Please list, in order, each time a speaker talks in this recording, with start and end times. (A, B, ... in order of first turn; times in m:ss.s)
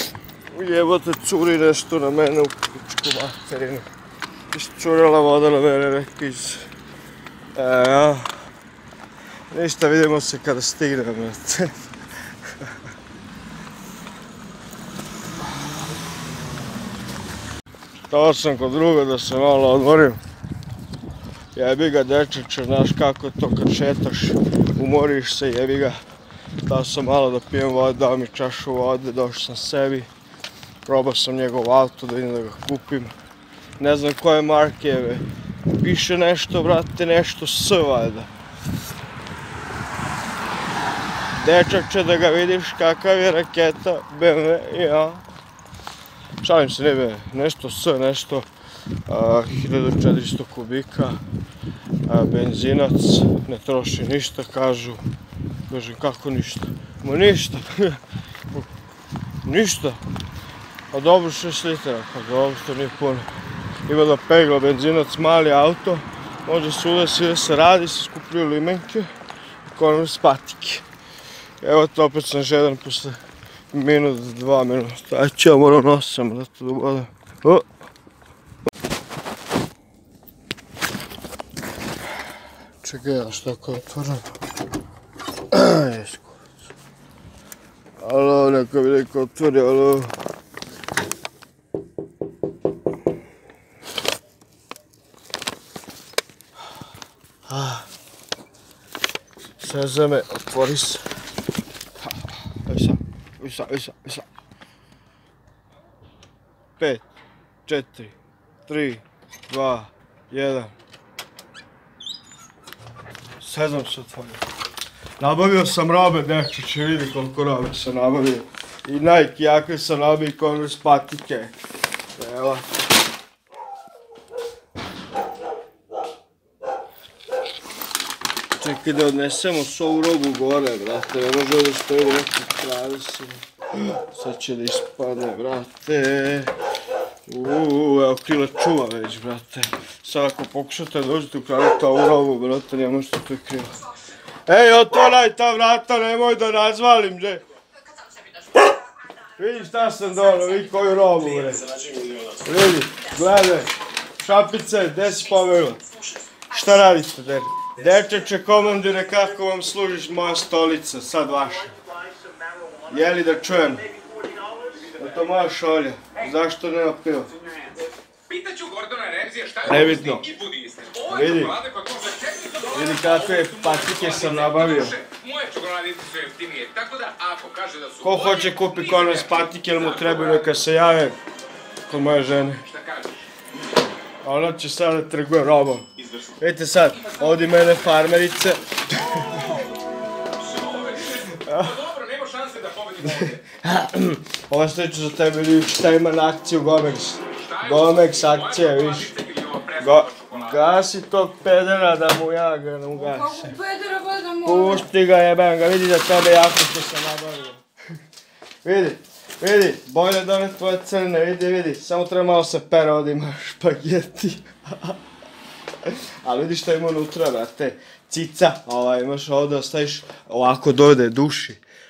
0:00.5-0:03.9 A
0:04.5-0:06.6 A
0:07.6-0:08.3 A
0:09.5-0:11.7 A
0:18.1-0:20.2 A
0:21.5-0:26.0 A
0:26.6-0:30.1 A
0:30.9-0:33.1 A
0:33.8-0:35.2 A
0:35.8-0:38.3 A
0:41.4-0:45.2 A
0:46.4-0:48.5 A
0:49.1-0:51.2 A
0:52.1-0:55.0 A
0:55.7-0:58.0 A
0:59.4-1:00.0 A
1:00.9-1:03.3 A
1:03.9-1:09.1 A
1:09.7-1:10.8 A
1:11.6-1:13.2 A
1:13.7-1:17.6 A
1:22.8-1:24.3 A
1:25.5-1:26.4 A
1:28.0-1:30.1 A
1:37.5-1:37.9 A
1:39.6-1:41.1 A
1:42.0-1:44.3 A
1:46.8-1:47.0 A
1:47.7-1:48.2 A
1:48.7-1:50.7 A
1:53.4-1:54.4 A
1:55.2-2:01.5 A
2:02.2-2:02.6 A
2:08.6-2:16.5 A
2:17.3-2:23.7 A
2:24.5-2:27.4 A
2:29.4-2:31.6 A
2:32.4-2:35.8 A
2:36.5-2:41.8 A
2:42.9-2:43.9 A
2:44.8-2:47.3 A
2:48.5-2:49.6 B
2:49.6-2:50.3 A
2:50.6-2:51.0 B
2:51.0-2:51.7 A
2:51.8-2:52.6 B
2:52.6-2:55.0 A
2:55.4-2:57.9 B
2:58.0-3:01.2 A
3:01.9-3:02.6 A
3:04.2-3:05.9 A
3:06.4-3:09.6 A
3:11.1-3:12.0 A
3:12.3-3:12.6 B
3:12.8-3:23.6 A
3:22.9-3:24.9 C
3:24.4-3:27.6 A
3:28.6-3:35.0 A
3:35.8-3:41.6 A